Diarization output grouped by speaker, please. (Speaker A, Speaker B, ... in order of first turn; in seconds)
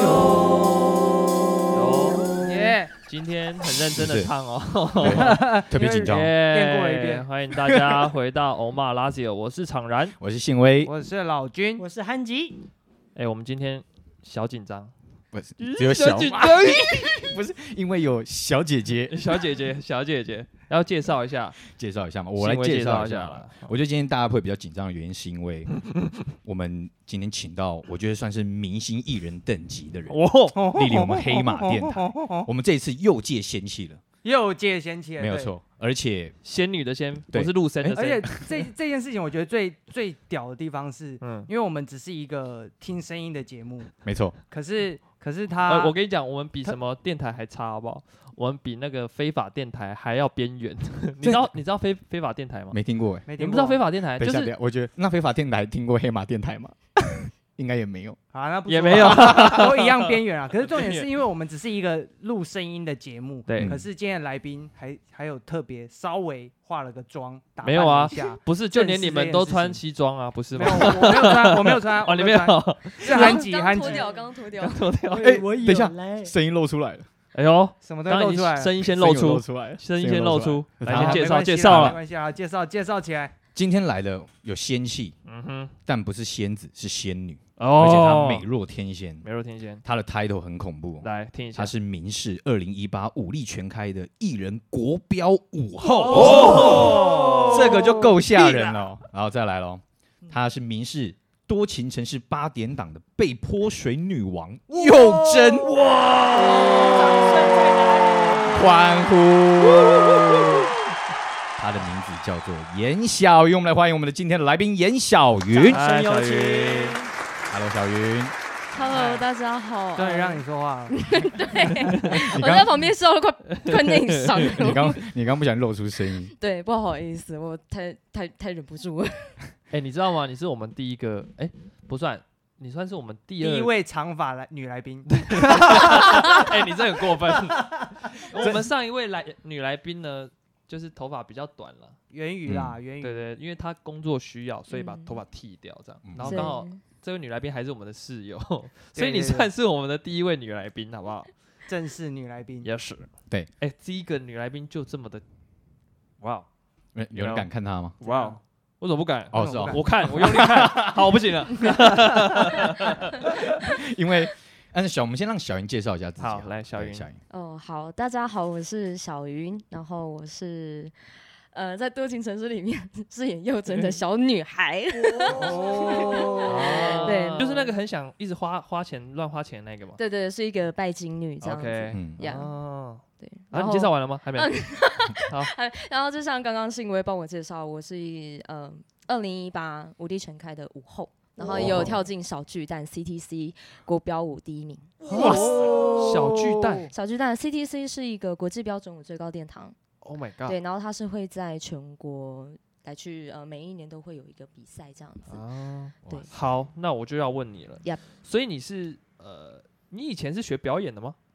Speaker A: 1.7-2.4, 2.9-5.5, 6.0-10.2, 13.2-14.9, 15.6-17.1, 19.1-21.6, 22.4-23.7, 30.1-30.5, 36.4-38.6, 41.2-41.5, 45.7-52.8, 53.4-54.5, 58.7-61.1, 63.5-63.8, 67.6-73.5, 74.5-75.3, 77.3-82.0, 85.3-85.8, 87.6-88.5, 89.2-89.8, 91.0-91.7, 96.2-97.0, 115.7-117.0, 123.5-124.7, 129.7-133.7, 135.2-142.0, 143.0-151.3, 152.6-155.2, 156.2-156.5, 157.1-157.5, 158.0-163.3, 166.2-167.1, 176.4-180.0, 181.4-184.6, 191.4-192.0, 195.1-196.9, 200.0-200.6, 205.3-211.2
Speaker B: 2.5-2.9, 5.0-7.3, 10.8-11.8, 30.5-32.5, 34.2-35.5, 37.9-43.9, 44.5-45.9, 53.3-53.8, 58.3-69.8, 70.5-74.1, 77.8-78.8, 80.9-83.3, 95.9-98.8, 104.8-105.7, 106.6-107.8, 118.8-119.2, 120.0-121.0, 133.4-136.5, 137.3-137.8, 142.1-143.3, 149.0-149.5, 151.7-152.7, 158.0-158.4, 159.3-160.4, 175.3-177.2, 195.1-196.9
Speaker C: 2.5-2.9, 73.0-74.8, 118.7-125.0, 126.3-129.4, 144.7-145.2, 146.2-146.8, 167.3-170.9, 171.5-177.7, 180.0-182.5, 183.2-195.9, 196.9-199.8, 200.4-205.4
Speaker D: 4.0-4.3, 5.0-6.3, 7.7-8.1, 10.2-10.9, 15.3-19.3, 21.6-25.8, 26.4-34.0, 35.2-36.4, 44.0-44.4, 51.2-51.5, 52.7-53.3, 54.2-58.2, 59.0-59.4, 63.6-63.9, 75.2-77.1, 78.8-81.9, 83.5-85.2, 85.9-89.3, 89.8-107.5, 108.4-110.7, 111.6-115.8, 117.5-118.3, 122.1-122.7, 124.5-126.3, 142.5-142.8, 146.1-146.5, 156.9-158.0, 159.3-161.2, 162.1-162.4, 163.3-167.2, 181.9-182.2, 191.5-191.9, 206.0-206.4
Speaker E: 11.8-12.6, 73.8-74.1, 75.1-76.3, 96.0-97.6, 106.5-108.7, 115.5-117.1, 175.2-175.5